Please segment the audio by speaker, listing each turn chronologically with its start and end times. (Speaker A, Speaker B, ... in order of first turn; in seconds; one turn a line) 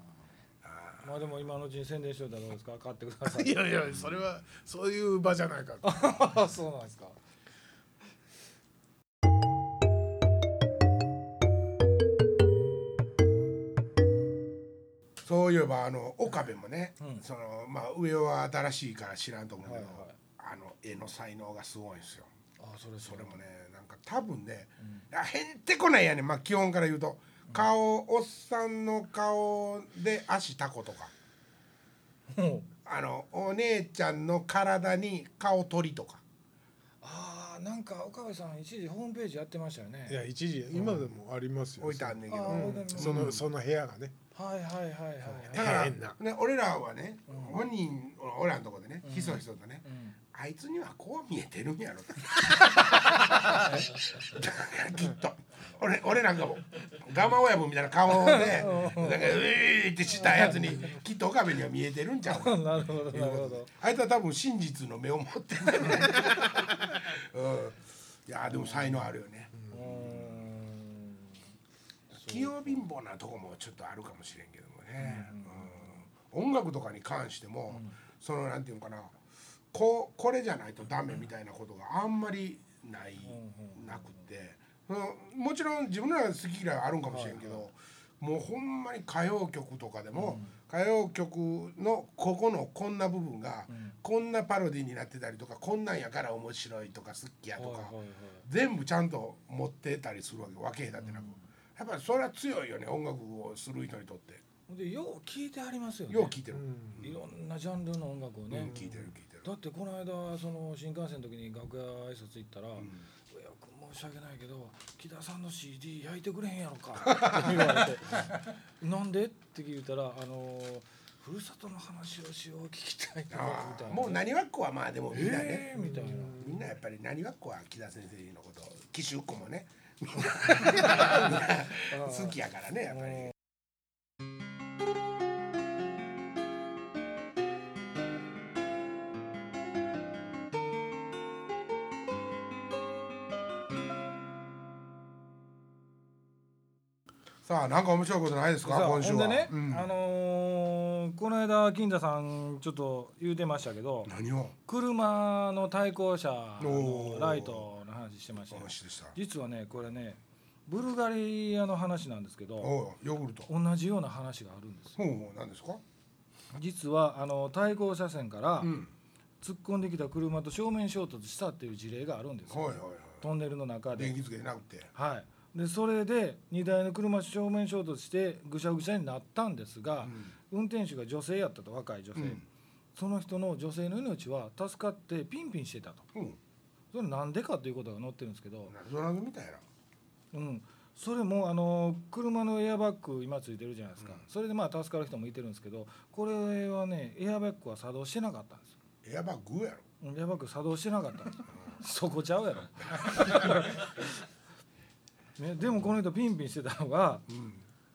Speaker A: 0.6-1.0
Speaker B: 1.0-3.6
Speaker C: 3.2-6.4
Speaker B: 5.8-7.2
Speaker A: 15.2-22.3
Speaker B: 19.6-20.2
Speaker B: 22.6-23.4
Speaker A: 23.0-31.1
Speaker B: 32.3-32.7
Speaker A: 32.8-36.2
Speaker B: 37.0-40.2
Speaker C: 40.1-44.1
Speaker A: 41.8-43.4
Speaker B: 42.3-43.4
Speaker B: 44.3-45.9
Speaker A: 45.5-69.5
Speaker C: 45.5-46.2
Speaker B: 47.3-47.6
Speaker B: 49.0-50.1
Speaker B: 58.2-59.4
Speaker B: 60.2-60.9
Speaker B: 62.2-63.7
Speaker B: 68.5-69.0
Speaker C: 69.5-70.2
Speaker B: 69.7-71.3
Speaker A: 72.1-79.1
Speaker B: 72.2-72.8
Speaker B: 75.0-75.8
Speaker B: 77.7-77.9
Speaker A: 79.7-104.4
Speaker B: 83.2-84.2
Speaker B: 87.1-87.6
Speaker B: 90.1-90.5
Speaker B: 93.7-93.9
Speaker B: 97.6-98.4
Speaker B: 101.0-101.4
Speaker B: 104.7-106.4
Speaker A: 106.1-107.1
Speaker C: 106.5-107.0
Speaker B: 107.0-108.8
Speaker A: 108.5-109.5
Speaker B: 109.4-124.2
Speaker A: 112.8-113.0
Speaker A: 117.0-117.8
Speaker A: 123.3-125.7
Speaker B: 125.1-126.4
Speaker C: 125.7-126.7
Speaker A: 126.4-133.3
Speaker B: 131.9-132.3
Speaker B: 133.1-133.3
Speaker A: 147.4-149.9
Speaker B: 148.6-154.1
Speaker A: 154.1-154.5
Speaker B: 154.7-162.7
Speaker A: 156.6-157.7
Speaker A: 158.5-159.1
Speaker A: 162.6-163.5
Speaker B: 163.5-165.0
Speaker A: 165.0-165.8
Speaker B: 166.5-168.7
Speaker A: 168.6-168.9
Speaker B: 169.4-174.2
Speaker A: 172.5-173.2
Speaker A: 173.9-174.9
Speaker B: 174.9-182.4
Speaker A: 180.0-180.3
Speaker A: 182.1-182.4
Speaker B: 182.9-186.1
Speaker B: 186.9-188.7
Speaker A: 188.7-189.6
Speaker B: 190.3-198.7
Speaker A: 199.0-199.8
Speaker B: 200.0-204.0
Speaker B: 205.4-207.3
Speaker A: 207.3-207.6